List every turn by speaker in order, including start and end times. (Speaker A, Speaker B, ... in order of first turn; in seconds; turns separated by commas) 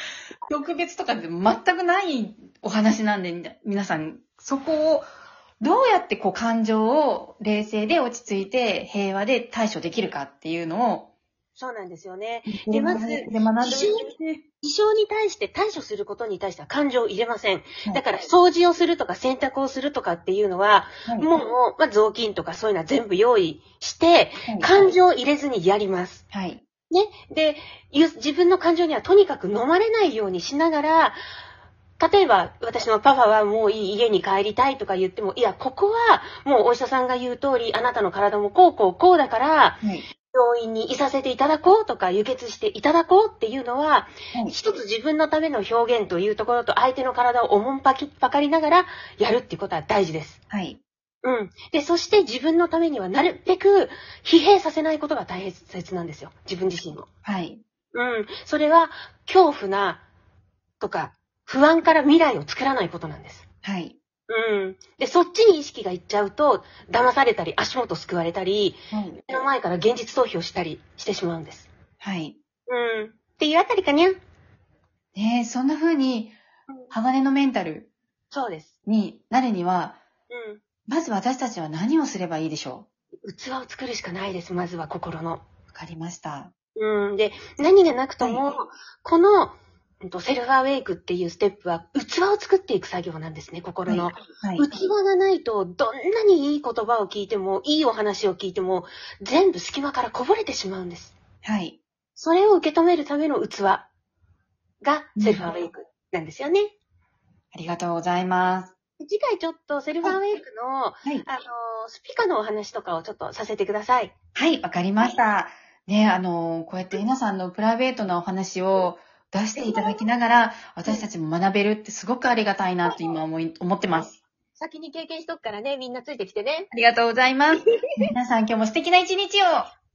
Speaker A: 0.5-5.1, Speaker A: 5.6-11.1, Speaker B: 11.6-26.2, Speaker A: 12.5-14.0, Speaker A: 24.5-24.9, Speaker A: 26.3-26.6, Speaker B: 26.9-31.2, Speaker B: 32.0-50.4, Speaker A: 50.5-50.8, Speaker B: 51.2-57.1, Speaker A: 57.2-57.6, Speaker B: 57.9-60.0, Speaker B: 60.8-63.5, Speaker A: 63.6-64.0, Speaker B: 64.3-71.7, Speaker A: 68.9-69.2, Speaker A: 72.0-72.4, Speaker B: 72.7-74.2, Speaker A: 75.1-76.4, Speaker A: 76.9-77.9, Speaker B: 78.3-78.7, Speaker A: 78.9-80.0, Speaker B: 80.3-80.6, Speaker A: 80.9-82.9, Speaker B: 83.2-85.4, Speaker A: 85.7-86.5, Speaker B: 86.8-101.1, Speaker A: 93.9-94.7, Speaker A: 101.4-101.8, Speaker B: 102.2-103.9, Speaker B: 104.8-106.7, Speaker A: 105.2-105.5, Speaker A: 107.5-108.7, Speaker B: 109.0-114.1, Speaker A: 114.4-124.2, Speaker B: 119.6-120.0, Speaker B: 124.6-126.7, Speaker A: 126.7-129.7, Speaker B: 127.5-128.1